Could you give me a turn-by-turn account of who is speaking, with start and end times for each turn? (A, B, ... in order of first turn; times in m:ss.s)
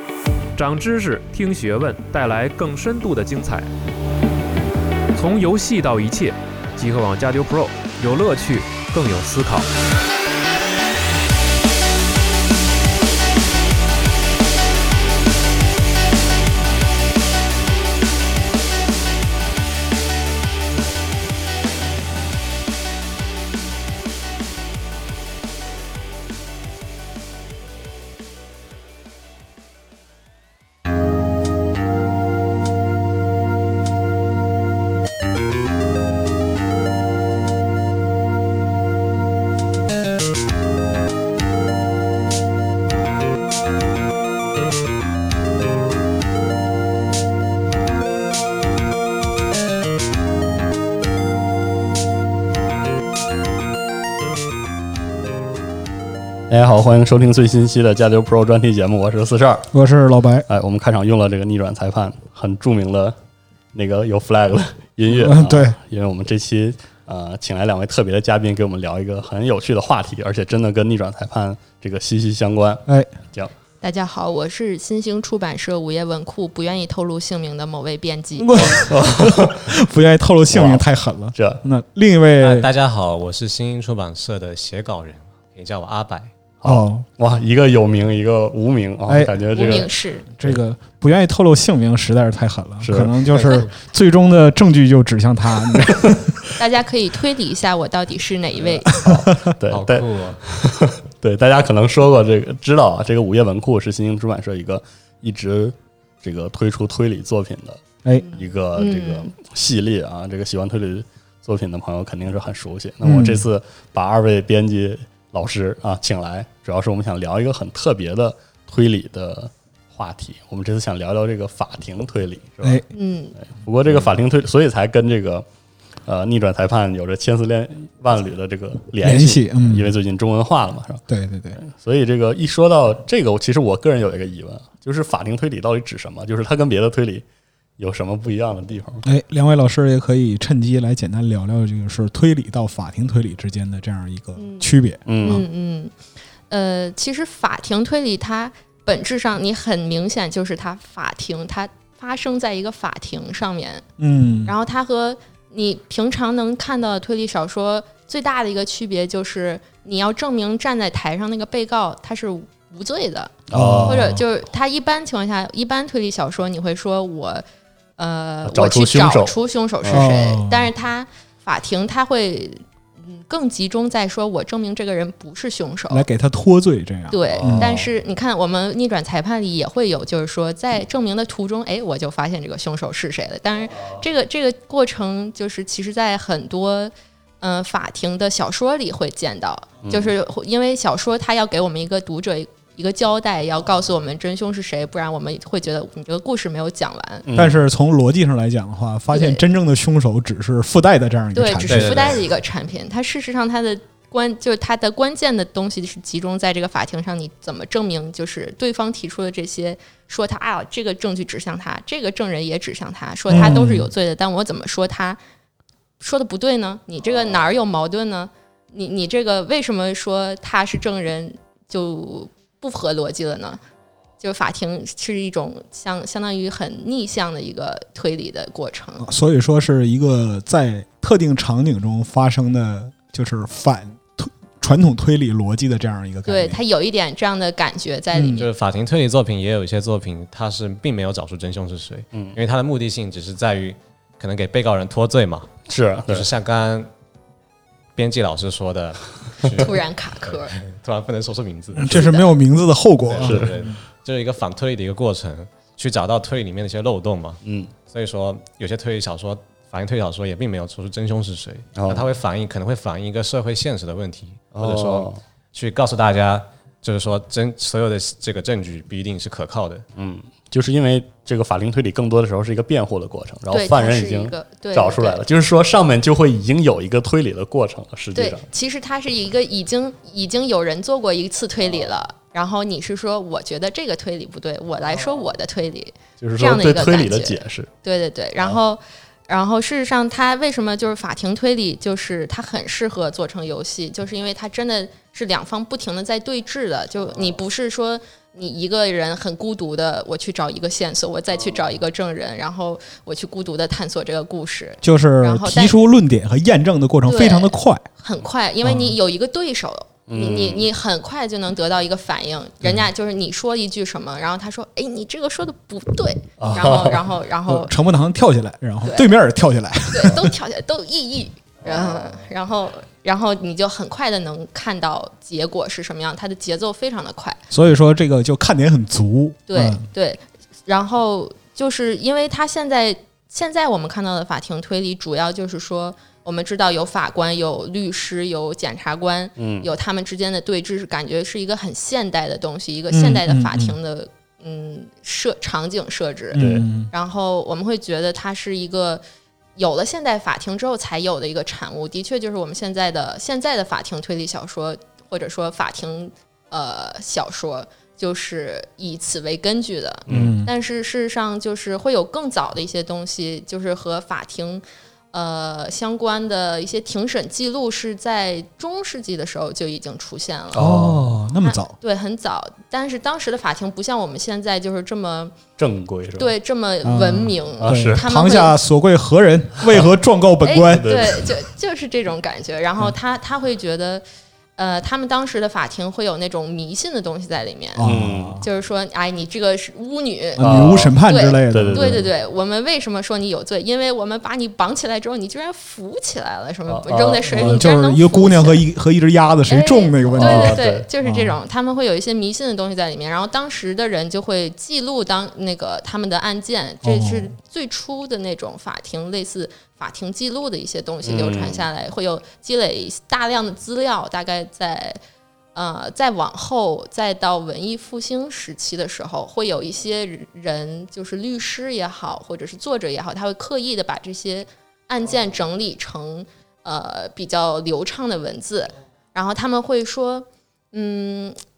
0:00.5-0:03.7 A
0:05.1-0:09.7 A
0:56.5-0:59.7 B
0:59.7-1:00.5 C
1:00.5-1:03.2 B
1:03.7-1:13.5 B
1:05.1-1:05.8 C
1:13.8-1:18.8 D
1:18.4-1:22.7 C
1:18.8-1:19.7 B
1:20.5-1:21.6 B
1:22.4-1:26.3 E
1:26.6-1:30.6 B
1:26.6-1:27.0 C
1:29.1-1:29.8 C
1:29.5-1:30.3 D
1:30.4-1:36.1 C
1:32.8-1:33.1 B
1:33.4-1:33.6 D
1:35.7-1:36.2 B
1:36.6-1:39.1 D
1:38.8-2:02.8 B
1:39.0-1:39.4 C
1:39.6-1:40.4 E
1:48.1-1:49.3 D
1:53.0-1:53.5 C
2:02.9-2:03.3 D
2:03.4-2:05.4 B
2:06.0-2:11.0 B
2:09.0-2:09.9 C
2:11.1-2:11.6 C
2:11.6-2:17.2 B
2:17.8-2:19.0 B
2:19.0-2:25.4 C
2:24.4-2:24.7 D
2:25.0-2:25.4 B
2:25.2-2:25.9 D
2:26.5-2:33.8 D
2:34.0-2:34.5 C
2:34.4-2:47.4 D
2:43.5-2:44.2 B
2:43.5-2:44.2 C
2:48.0-2:56.0 D
2:48.4-2:50.1 B
2:49.9-2:50.7 C
2:55.9-2:57.7 C
2:57.1-3:17.3 D
2:57.3-2:57.9 B
3:09.8-3:10.1 B
3:17.3-3:17.6 B
3:17.3-3:22.2 C
3:19.1-3:19.4 D
3:21.3-3:35.2 D
3:21.7-3:22.2 E
3:33.3-3:33.9 C
3:36.0-3:43.6 D
3:44.2-3:49.1 D
3:49.0-3:56.6 C
3:56.2-3:58.5 D
3:58.1-3:58.4 C
3:58.4-4:05.5 E
4:05.7-4:06.3 B
4:06.0-4:06.9 E
4:08.0-4:12.1 E
4:09.6-4:10.6 D
4:11.7-4:13.8 C
4:11.8-4:12.3 D
4:13.1-4:29.8 E
4:13.2-4:13.5 B
4:17.4-4:17.7 B
4:21.8-4:22.0 B
4:24.5-4:25.2 B
4:30.0-4:38.4 B
4:33.5-4:35.2 D
4:38.1-5:05.8 D
4:46.2-4:47.7 B
5:04.8-5:07.8 C
5:07.0-5:17.7 D
5:08.6-5:09.0 C
5:10.1-5:10.7 B
5:16.4-5:17.0 B
5:17.5-5:20.3 C
5:18.8-5:19.1 D
5:19.9-5:27.4 D
5:21.6-5:22.1 B
5:27.5-5:29.8 C
5:29.5-5:49.0 D
5:39.4-5:39.7 B
5:42.9-5:43.7 C
5:46.3-5:46.9 C
5:46.3-5:46.7 B
5:49.6-6:10.8 D
6:00.1-6:00.3 B
6:00.1-6:00.5 C
6:10.5-6:11.2 B
6:10.6-6:11.8 C
6:11.4-6:15.4 D
6:15.6-6:16.3 B
6:16.2-6:18.5 D
6:16.8-6:20.9 C
6:17.6-6:18.0 B
6:20.4-6:24.0 D
6:20.7-6:21.3 B
6:24.6-6:38.6 D
6:27.8-6:28.4 C
6:27.8-6:28.4 B
6:30.4-6:30.9 B
6:30.4-6:32.0 C
6:31.5-6:32.1 B
6:36.7-6:37.7 B
6:37.3-6:41.4 C
6:39.5-6:55.0 D
6:40.1-6:40.9 B
6:46.8-6:47.3 C
6:51.0-6:51.7 B
6:55.5-7:11.4 D